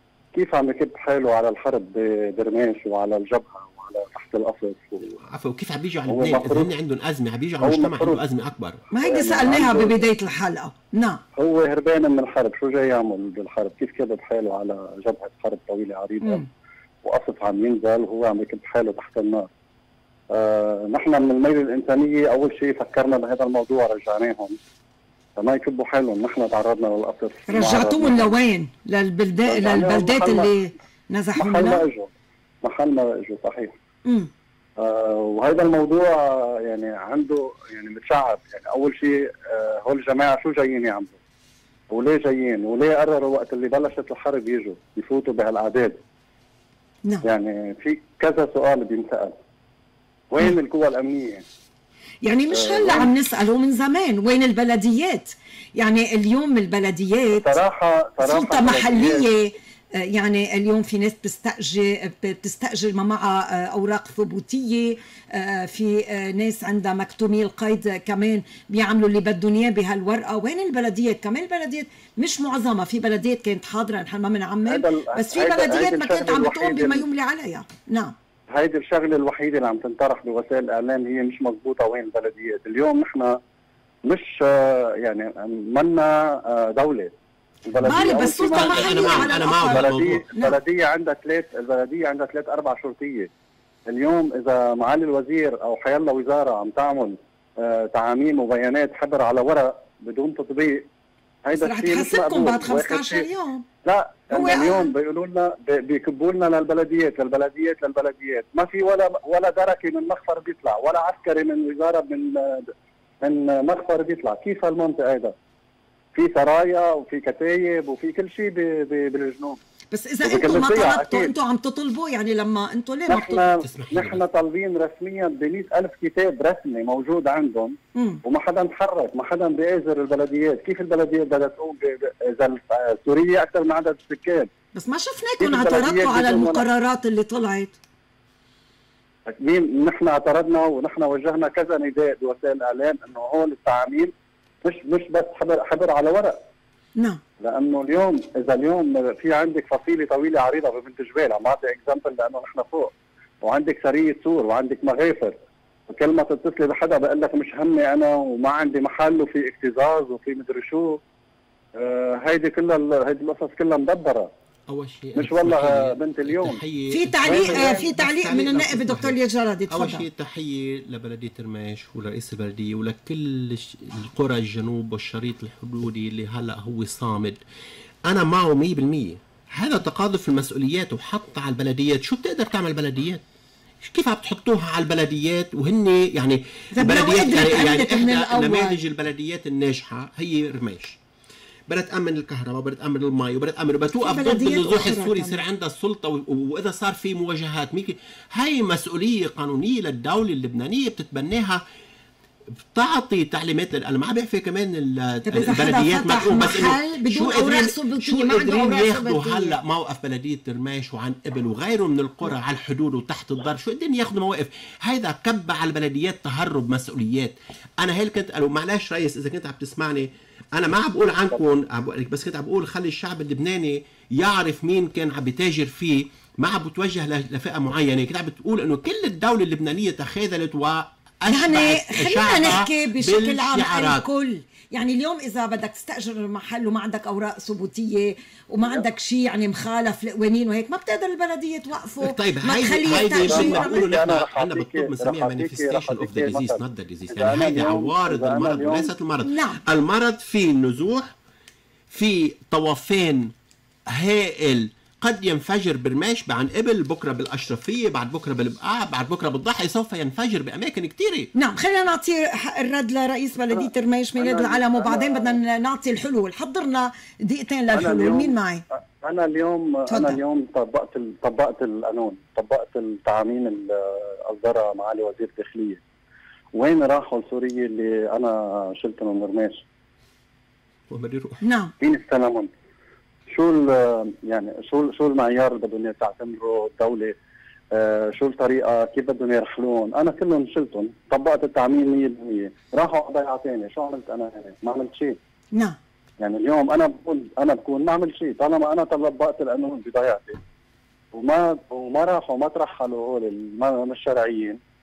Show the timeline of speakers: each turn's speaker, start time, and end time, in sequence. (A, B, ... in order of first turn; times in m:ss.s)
0:00.3-0:05.2 A
0:05.2-0:08.8 B
0:06.1-0:06.7 A
0:07.6-0:08.2 A
0:08.9-0:11.2 C
0:09.0-0:10.0 A
0:11.4-0:16.4 A
0:16.2-0:16.5 C
0:17.0-0:19.5 A
0:20.3-0:24.6 A
0:25.4-0:28.3 A
0:27.5-0:31.8 C
0:29.5-0:30.5 A
0:31.4-0:32.1 A
0:32.6-0:33.8 A
0:34.8-0:41.1 A
0:41.9-0:46.0 A
0:47.2-0:49.4 A
0:50.3-0:51.4 A
0:52.2-0:57.5 C
0:52.5-0:53.1 A
0:57.4-0:59.2 A
0:58.2-1:18.1 C
1:14.7-1:17.0 A
1:18.6-1:23.4 A
1:24.0-1:27.1 A
1:27.7-1:33.3 A
1:27.8-1:30.6 C
1:28.5-1:30.2 B
1:33.9-1:40.8 A
1:41.4-1:43.3 A
1:41.6-1:43.6 C
1:43.8-1:55.3 A
1:44.3-1:44.9 C
1:56.1-1:59.6 A
1:59.9-2:03.4 C
2:00.2-2:01.3 A
2:03.1-2:14.5 A
2:03.6-2:04.2 B
2:14.7-2:17.8 C
2:15.4-2:16.6 A
2:19.4-2:24.1 A
2:24.6-2:26.4 A
2:27.4-2:35.3 A
2:35.9-2:41.0 A
2:41.8-2:44.3 A
2:44.7-2:49.2 B
2:45.2-2:46.6 A
2:46.9-2:50.0 C
2:47.3-2:47.9 A
2:49.7-2:57.4 B
2:58.1-3:03.2 B
3:03.8-3:11.0 B
3:06.7-3:08.8 C
3:11.7-3:21.6 B
3:14.0-3:15.4 C
3:22.7-3:54.0 B
3:25.3-3:29.6 C
3:51.3-4:03.9 C
4:02.0-4:11.1 B
4:02.9-4:08.9 A
4:09.2-4:09.6 C
4:11.9-4:13.3 B
4:13.9-4:21.3 B
4:21.3-4:28.6 C
4:23.5-4:25.4 A
4:27.7-4:28.3 A
4:29.0-4:35.8 A
4:29.9-4:30.2 C
4:36.6-4:39.6 A
4:40.9-4:41.4 B
4:41.4-4:41.7 C
4:41.8-4:42.5 A
4:43.3-4:47.1 A
4:47.7-4:55.2 A
4:56.2-5:00.4 A
5:01.1-5:04.6 A